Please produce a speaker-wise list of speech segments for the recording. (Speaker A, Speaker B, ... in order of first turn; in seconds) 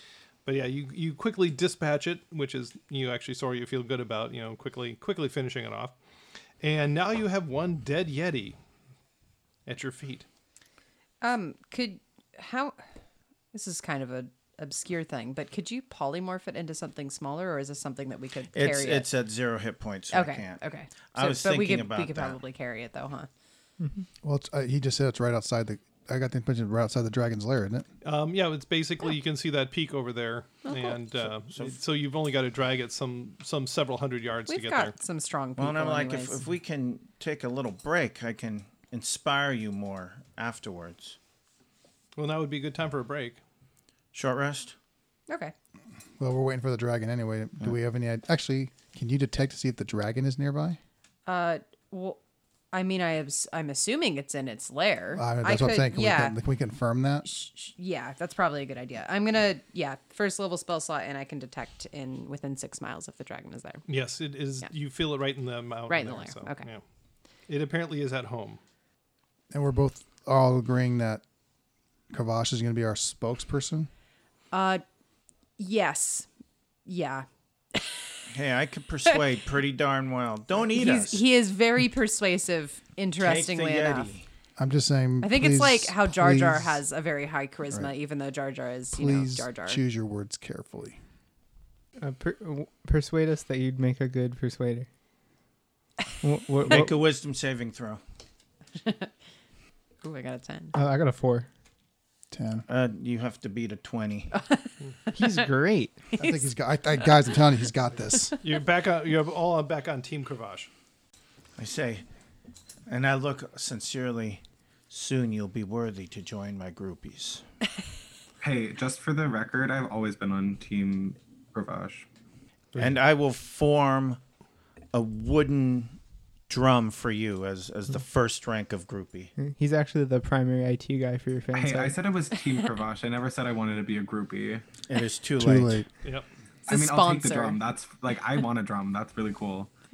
Speaker A: 0.5-6.0, 6.6-8.6, 9.7-10.3, 28.0-34.9, 42.2-43.4, 63.9-66.8, 67.5-68.6, 108.4-110.7
Speaker B: 11.2-12.8, 13.5-19.1, 20.1-23.3, 30.7-31.0, 34.5-36.4, 45.3-45.5, 51.3-52.2, 52.7-56.4, 57.2-63.8, 65.9-66.7, 74.5-74.8, 75.6-76.3, 76.9-78.2, 80.7-84.1, 85.2-89.8, 98.8-99.1, 100.0-100.7, 104.3-105.5, 106.2-106.5, 136.7-137.6
Speaker C: 18.5-20.6, 21.1-22.4, 31.2-31.8, 35.6-41.2, 44.1-44.8, 78.3-81.2, 83.2-84.3, 96.7-98.0, 102.7-104.3, 111.6-112.0, 112.9-117.4, 122.8-124.2, 124.9-126.0, 126.5-129.3, 134.9-135.8
Speaker D: 23.8-24.1, 92.0-94.9, 96.2-97.0, 100.7-101.5, 105.1-106.0, 129.4-132.0
Speaker E: 24.2-27.9, 46.2-50.8, 55.1-57.3, 69.5-71.2, 72.1-73.9, 84.6-86.8, 88.9-91.0, 102.3-102.7, 106.2-108.3, 135.4-135.9
Speaker F: 118.4-122.1, 131.5-134.6, 136.7-139.7